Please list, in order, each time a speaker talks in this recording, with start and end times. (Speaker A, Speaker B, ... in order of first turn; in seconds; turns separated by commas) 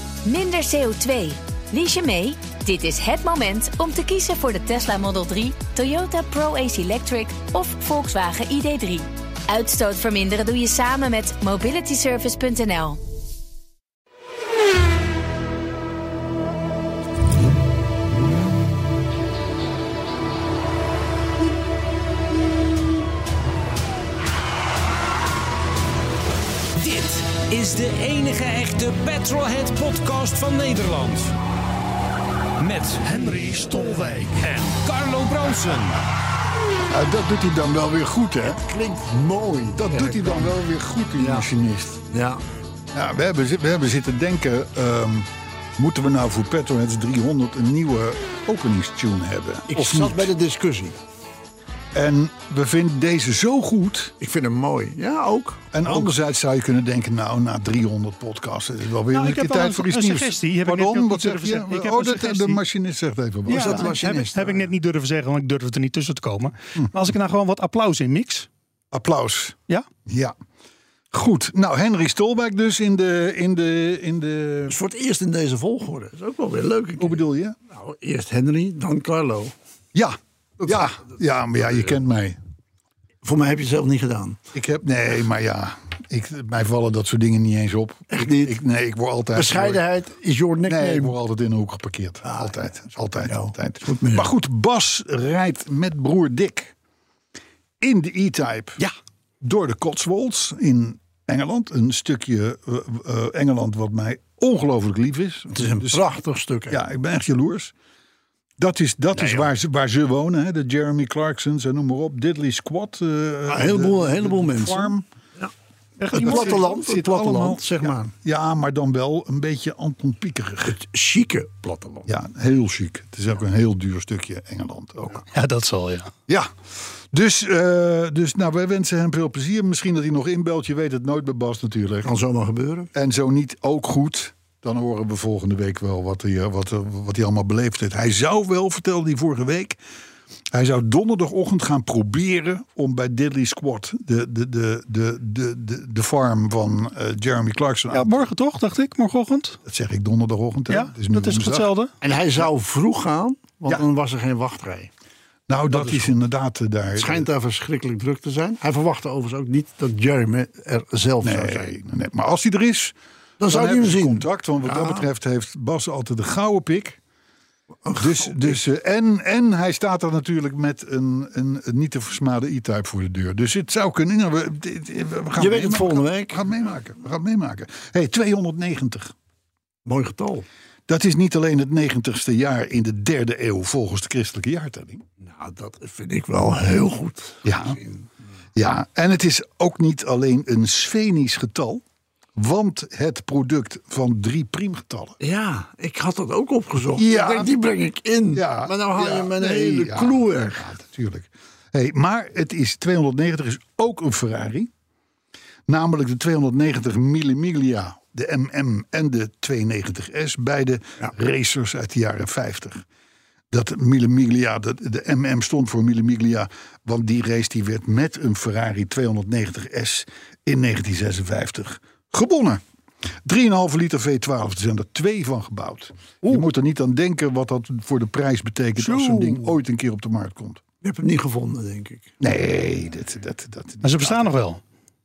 Speaker A: 0.2-13.0, Speaker B: 26.8-31.3, Speaker B: 32.6-33.1, Speaker C: 33.0-34.5, Speaker B: 34.3-36.0, Speaker D: 36.9-39.1, Speaker E: 39.0-40.6, Speaker D: 39.7-42.0, Speaker E: 41.2-41.5, Speaker E: 42.1-42.4, Speaker D: 42.9-50.3, Speaker E: 49.7-51.0, Speaker D: 51.9-54.1, Speaker E: 54.2-56.0, Speaker D: 55.7-64.2, Speaker C: 59.1-62.6, Speaker E: 63.5-64.7, Speaker C: 63.5-68.5, Speaker D: 68.9-70.3, Speaker D: 71.1-74.8, Speaker E: 74.7-79.5, Speaker D: 77.0-77.5, Speaker D: 79.9-82.4, Speaker E: 83.2-84.4, Speaker D: 84.5-89.8, Speaker E: 88.1-88.6, Speaker E: 89.3-91.1, Speaker D: 90.7-96.7, Speaker E: 92.2-92.7, Speaker E: 93.2-94.3, Speaker D: 97.8-98.8, Speaker D: 99.4-106.0, Speaker E: 105.5-106.8, Speaker D: 106.7-107.7, Speaker D: 108.6-115.0, Speaker E: 109.2-109.4, Speaker E: 113.5-115.5, Speaker C: 116.0-116.6, Speaker E: 116.1-118.1, Speaker D: 116.1-120.8, Speaker E: 120.7-122.1, Speaker D: 122.0-125.2, Speaker C: 125.3-126.1, Speaker D: 127.1-132.1, Speaker E: 132.0-132.9, Speaker D: 132.9-139.8, Speaker D: 140.5-148.1, Speaker C: 147.9-149.6, Speaker D: 149.6-151.7, Speaker C: 150.7-151.9, Speaker E: 152.0-154.9, Speaker D: 155.5-157.3, Speaker E: 155.7-156.1, Speaker E: 156.9-161.7, Speaker D: 161.2-167.0, Speaker E: 163.4-165.0, Speaker E: 167.8-168.6, Speaker D: 167.9-179.1, Speaker E: 175.4-176.4, Speaker E: 179.8-180.5, Speaker D: 180.9-185.0, Speaker E: 185.2-188.1, Speaker D: 187.4-187.8, Speaker D: 188.5-191.8, Speaker D: 192.3-195.2, Speaker E: 195.2-200.7, Speaker D: 196.9-197.5, Speaker D: 198.3-204.7, Speaker D: 205.7-212.8, Speaker D: 213.5-222.6, Speaker D: 223.2-230.6, Speaker C: 228.8-229.4, Speaker E: 230.8-232.1, Speaker D: 232.2-234.3, Speaker C: 233.8-234.6